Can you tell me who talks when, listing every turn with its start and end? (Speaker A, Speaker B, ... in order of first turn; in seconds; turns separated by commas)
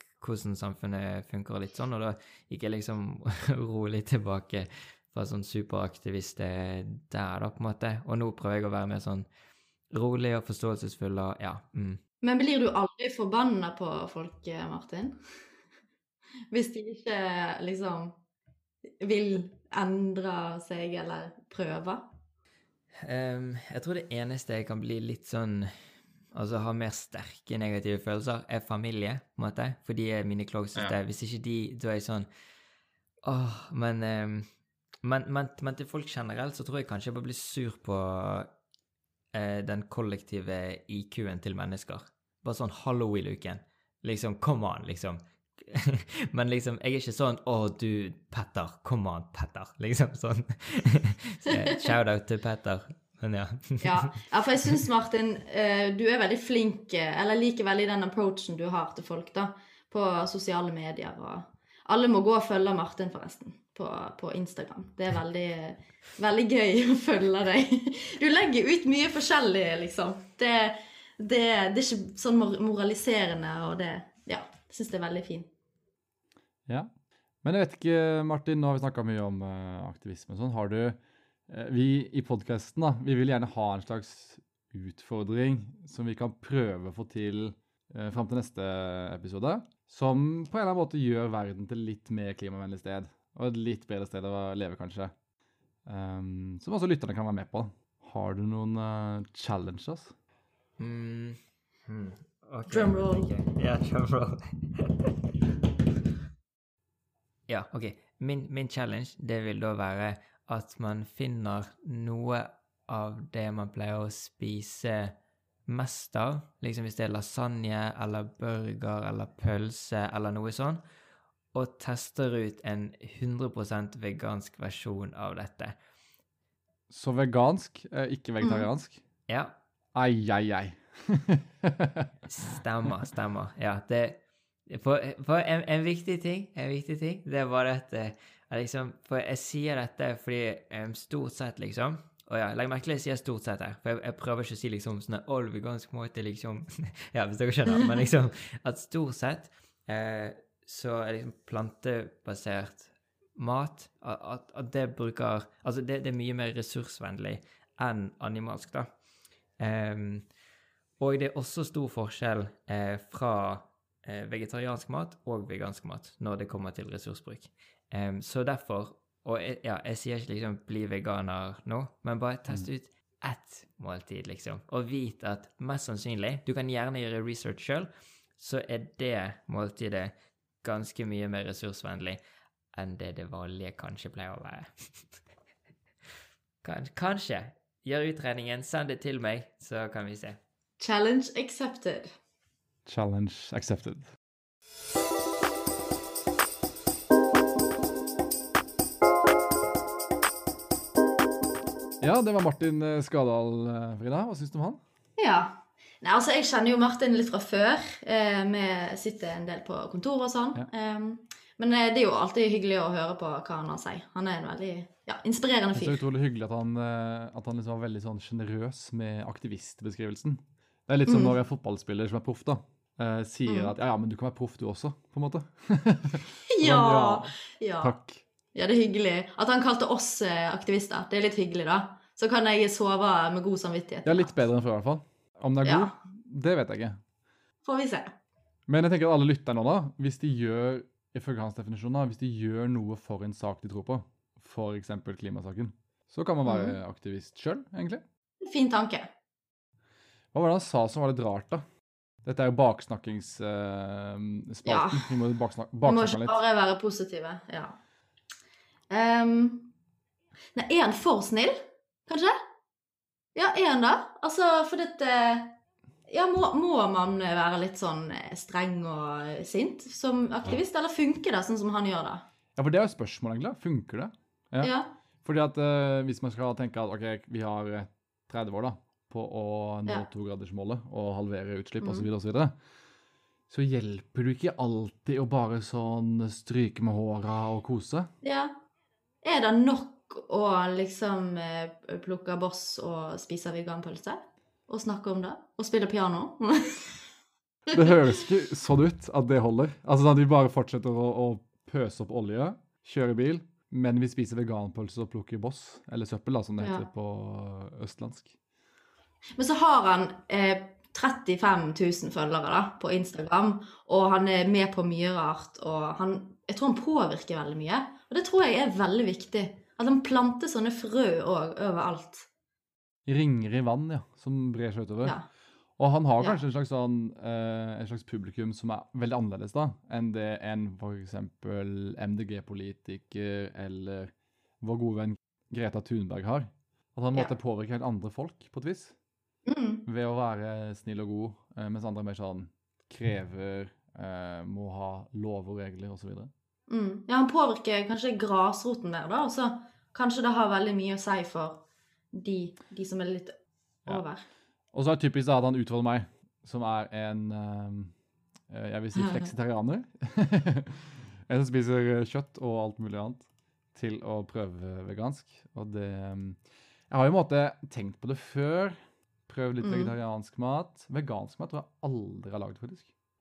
Speaker A: 0.2-9.3, Speaker A: 9.9-12.0, Speaker B: 12.2-15.2, Speaker B: 16.5-18.2, Speaker B: 19.0-22.0, Speaker A: 23.0-25.7, Speaker A: 26.3-32.3, Speaker A: 33.2-34.5, Speaker A: 35.0-38.5, Speaker A: 39.3-54.8, Speaker B: 53.8-75.5, Speaker C: 77.4-81.0, Speaker C: 81.5-95.1, Speaker C: 95.9-100.1, Speaker A: 100.8-105.1, Speaker B: 102.7-103.3, Speaker A: 107.5-115.1, Speaker A: 115.7-120.8, Speaker A: 121.5-125.8, Speaker C: 126.9-129.0, Speaker B: 128.4-128.7, Speaker A: 129.3-129.5, Speaker C: 129.9-131.9, Speaker A: 132.3-158.9, Speaker A: 159.6-160.3, Speaker A: 161.0-182.2, Speaker A: 182.7-185.2, Speaker A: 186.6-190.4, Speaker B: 190.8-192.1, Speaker C: 192.8-194.1, Speaker C: 202.0-204.8, Speaker B: 205.2-216.1, Speaker C: 215.7-227.3, Speaker B: 221.0-221.3, Speaker B: 223.4-223.7, Speaker B: 226.5-227.9, Speaker C: 227.8-228.2, Speaker B: 228.5-234.5, Speaker C: 234.1-237.0, Speaker B: 235.6-235.9, Speaker B: 237.6-238.1, Speaker C: 238.7-248.0, Speaker B: 246.4-246.8, Speaker B: 248.4-249.1, Speaker C: 250.3-251.6, Speaker C: 252.2-256.4, Speaker B: 254.6-255.2, Speaker B: 255.8-257.8, Speaker B: 258.9-259.7, Speaker B: 260.5-262.4, Speaker B: 263.3-265.5, Speaker B: 266.1-272.2, Speaker C: 272.6-274.7, Speaker B: 274.6-274.9, Speaker C: 275.2-282.5, Speaker B: 281.8-282.1, Speaker C: 283.5-288.1, Speaker B: 288.2-288.5, Speaker B: 289.2-297.1, Speaker C: 297.7-308.3, Speaker B: 306.6-306.9, Speaker B: 309.4-322.3, Speaker C: 323.1-325.1, Speaker C: 325.8-334.1, Speaker C: 334.6-338.9, Speaker B: 339.4-339.8, Speaker C: 339.9-346.3, Speaker B: 346.7-351.6, Speaker B: 352.1-354.2, Speaker C: 354.7-357.9, Speaker C: 358.5-366.4, Speaker B: 358.9-359.3, Speaker C: 366.9-368.7, Speaker C: 369.3-372.9, Speaker B: 369.6-369.9